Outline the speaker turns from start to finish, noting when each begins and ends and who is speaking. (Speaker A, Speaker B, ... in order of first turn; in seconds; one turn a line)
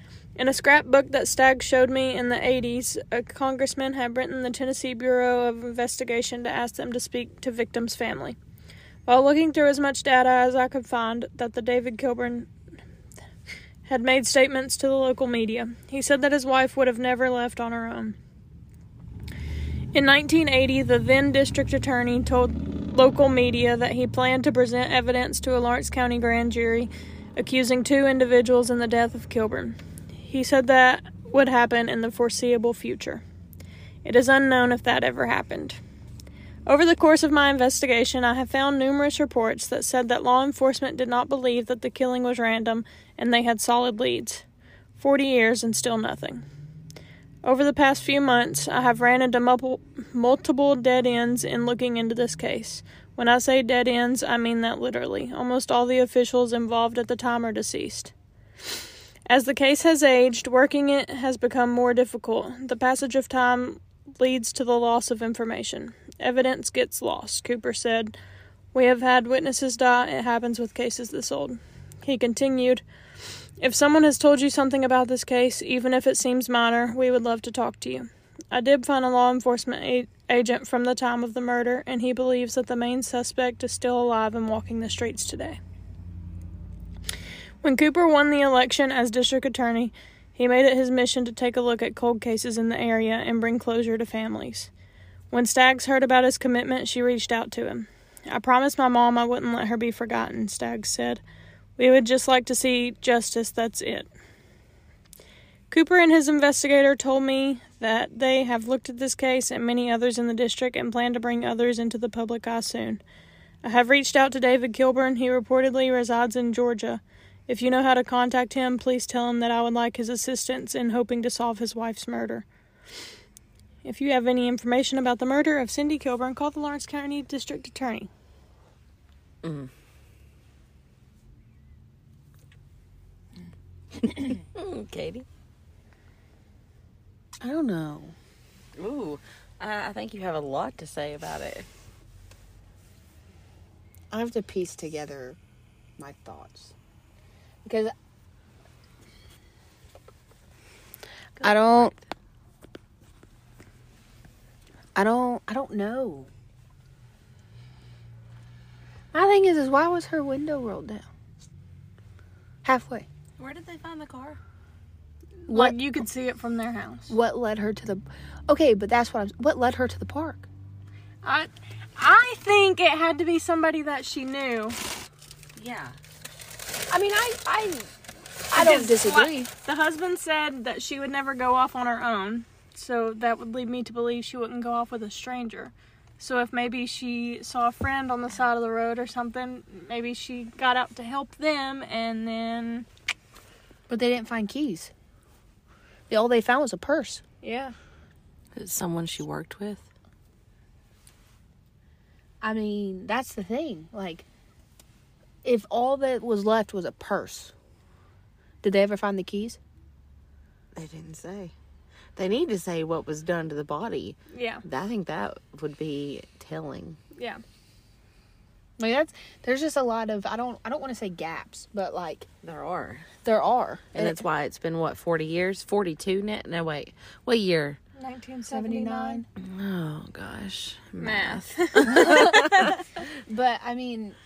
Speaker A: 0.4-8.4
Speaker A: 9.1-12.5
Speaker A: 13.9-18.2
Speaker A: 19.9-33.2
Speaker A: 34.0-35.8
Speaker A: 36.7-44.5
Speaker A: 45.0-46.4
Speaker A: 47.4-58.1
Speaker A: 59.3-68.2
Speaker A: 68.7-72.8
Speaker A: 73.6-85.6
Speaker A: 87.6-94.7
Speaker A: 95.3-101.2
Speaker A: 101.8-104.1
Speaker A: 105.7-113.0
Speaker A: 113.6-122.5
Speaker A: 123.8-128.1
Speaker B: 129.4-129.7
Speaker B: 134.0-135.2
Speaker C: 137.4-138.2
Speaker B: 138.8-141.7
Speaker C: 144.1-145.4
Speaker C: 146.0-146.7
Speaker C: 147.7-147.9
Speaker B: 151.4-152.0
Speaker C: 151.4-151.9
Speaker C: 154.9-156.3
Speaker C: 159.1-161.1
Speaker C: 162.6-163.1
Speaker B: 163.4-164.4
Speaker A: 165.5-167.2
Speaker C: 165.5-165.9
Speaker C: 167.1-170.5
Speaker A: 171.2-174.8
Speaker B: 175.6-176.0
Speaker C: 176.9-177.9
Speaker C: 178.5-179.5
Speaker A: 178.5-192.9
Speaker C: 193.9-194.9
Speaker C: 196.1-197.2
Speaker A: 197.4-197.7
Speaker B: 198.6-199.9
Speaker C: 202.4-204.3
Speaker C: 205.4-207.5
Speaker C: 208.6-209.6
Speaker B: 210.8-211.5
Speaker B: 212.2-217.0
Speaker A: 214.3-214.6
Speaker A: 217.2-217.4
Speaker C: 218.8-222.3
Speaker B: 222.4-223.1
Speaker C: 223.2-224.2
Speaker B: 223.9-227.8
Speaker A: 228.0-229.2
Speaker C: 228.5-229.3
Speaker B: 229.4-232.8
Speaker A: 231.0-232.8
Speaker C: 231.9-232.5
Speaker C: 233.2-234.2